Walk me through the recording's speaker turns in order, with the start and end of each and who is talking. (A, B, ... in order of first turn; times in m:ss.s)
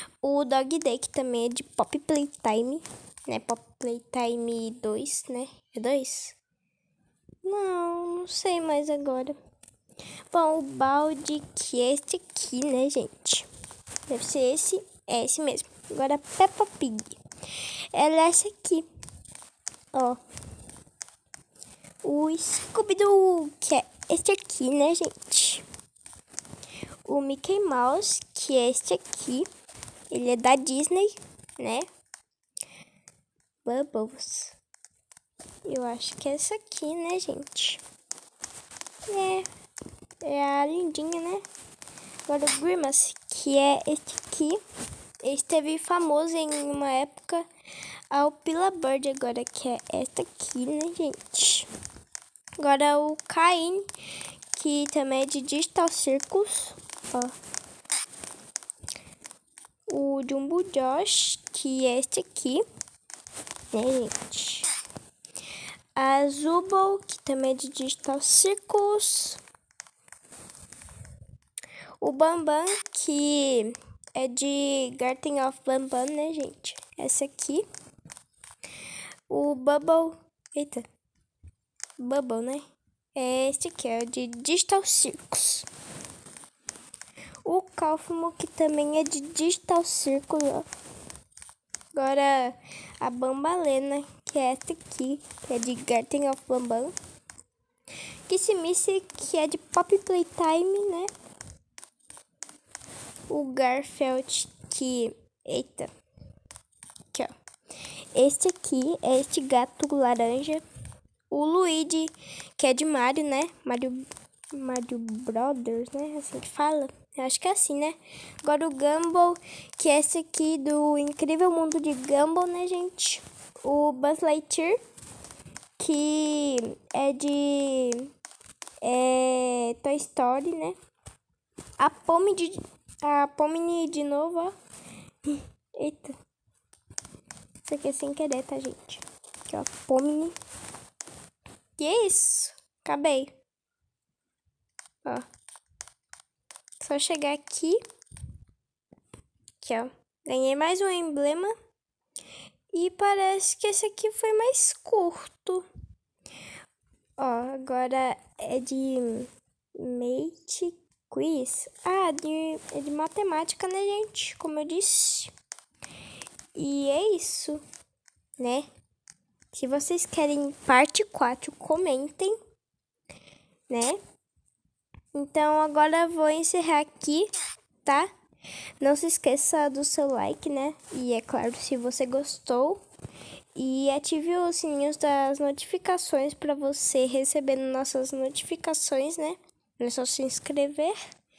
0:00.2-0:06.4 A
0:07.4-0:09.4 A
0:10.3-0:13.5 A
0:14.1-0:17.2 A
0:17.9-0:18.9 A
0:19.9-0:20.2 A
0:22.0-0:25.6 A
0:27.0-0:29.5 A
0:30.1-0:31.9 A
0:33.6-0:34.6 A
0:35.6-0:37.8 A
0:39.1-0:39.4 A
0:40.2-0:41.4 A
0:42.3-0:44.6 A
0:45.2-0:47.4 A
0:48.1-0:51.7 A
0:52.6-0:53.8 A
0:54.5-0:57.3 A
0:59.9-1:02.6 A
1:03.7-1:04.7 A
1:06.0-1:09.4 A
1:12.0-1:17.6 A
1:19.3-1:20.8 A
1:22.0-1:25.7 A
1:27.4-1:30.7 A
1:31.9-1:36.9 A
1:38.3-1:41.1 A
1:43.3-1:45.9 A
1:48.1-1:50.6 A
1:51.3-2:04.8 A
2:05.8-2:08.1 A
2:08.8-2:10.8 A
2:11.8-2:14.5 A
2:15.2-2:16.2 A
2:17.6-2:20.4 A
2:21.8-2:23.3 A
2:26.8-2:27.8 A
2:29.6-2:31.6 A
2:32.7-2:35.6 A
2:37.2-2:45.3 A
2:46.6-2:47.6 A
2:48.4-2:48.7 A
2:49.5-2:52.4 A
2:53.7-2:54.0 A
2:55.1-2:57.3 A
2:57.8-2:58.1 A
2:58.8-3:02.8 A
3:03.6-3:11.0 A